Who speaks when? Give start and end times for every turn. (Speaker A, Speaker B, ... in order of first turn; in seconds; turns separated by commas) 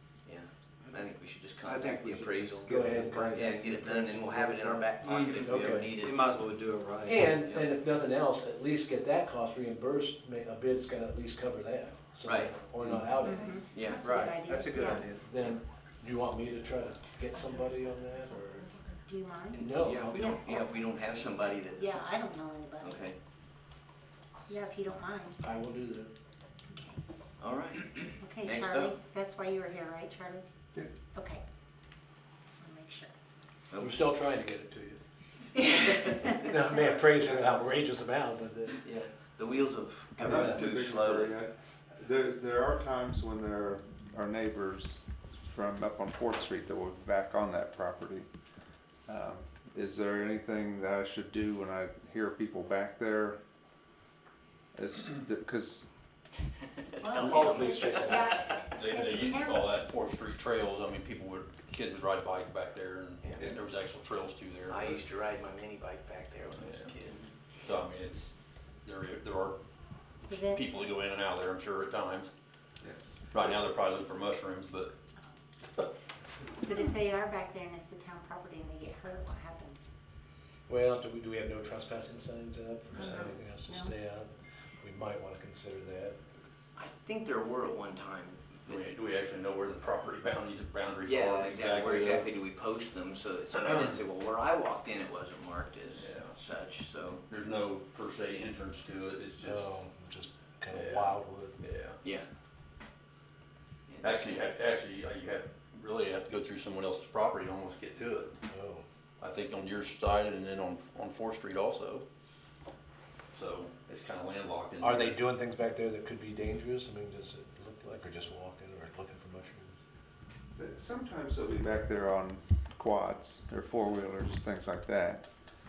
Speaker A: 0.2-6.3, Speaker B: 1.6-3.8, Speaker C: 2.6-6.0, Speaker B: 5.0-7.2, Speaker C: 7.0-13.6, Speaker A: 7.4-7.7, Speaker A: 12.2-12.5, Speaker B: 12.8-13.3, Speaker D: 13.2-15.1, Speaker A: 13.7-14.1, Speaker B: 13.9-15.2, Speaker C: 15.1-18.7, Speaker D: 19.1-20.6, Speaker A: 19.5-22.0, Speaker C: 19.6-20.2, Speaker D: 21.7-23.0, Speaker A: 22.8-23.1, Speaker D: 24.5-25.4, Speaker C: 25.4-26.1, Speaker D: 26.7-27.0, Speaker A: 27.4-28.9, Speaker D: 28.2-30.4, Speaker D: 31.1-31.4, Speaker D: 32.5-33.1, Speaker A: 33.7-34.0, Speaker C: 33.8-35.0, Speaker C: 36.0-38.8, Speaker A: 38.8-41.4, Speaker C: 40.2-40.7, Speaker E: 40.2-48.3, Speaker E: 49.0-53.4, Speaker E: 54.7-55.9, Speaker A: 57.0-58.2, Speaker D: 57.0-59.7, Speaker F: 57.1-65.0, Speaker C: 57.8-58.3, Speaker A: 64.7-67.3, Speaker F: 66.5-66.9, Speaker F: 67.6-68.3, Speaker F: 68.8-69.6, Speaker D: 70.2-70.6, Speaker F: 70.3-72.3, Speaker F: 73.3-74.9, Speaker D: 76.6-79.9, Speaker C: 80.7-84.3, Speaker D: 83.0-83.9, Speaker C: 84.8-86.2, Speaker A: 86.8-88.8, Speaker F: 88.7-92.2, Speaker A: 91.0-97.2, Speaker F: 95.9-96.3, Speaker F: 97.3-99.7, Speaker C: 99.4-101.6, Speaker F: 100.7-102.0, Speaker A: 103.9-104.5, Speaker F: 104.0-108.3, Speaker C: 108.5-108.8, Speaker F: 109.2-112.0, Speaker F: 113.3-115.2, Speaker C: 114.8-119.7, Speaker E: 120.5-125.3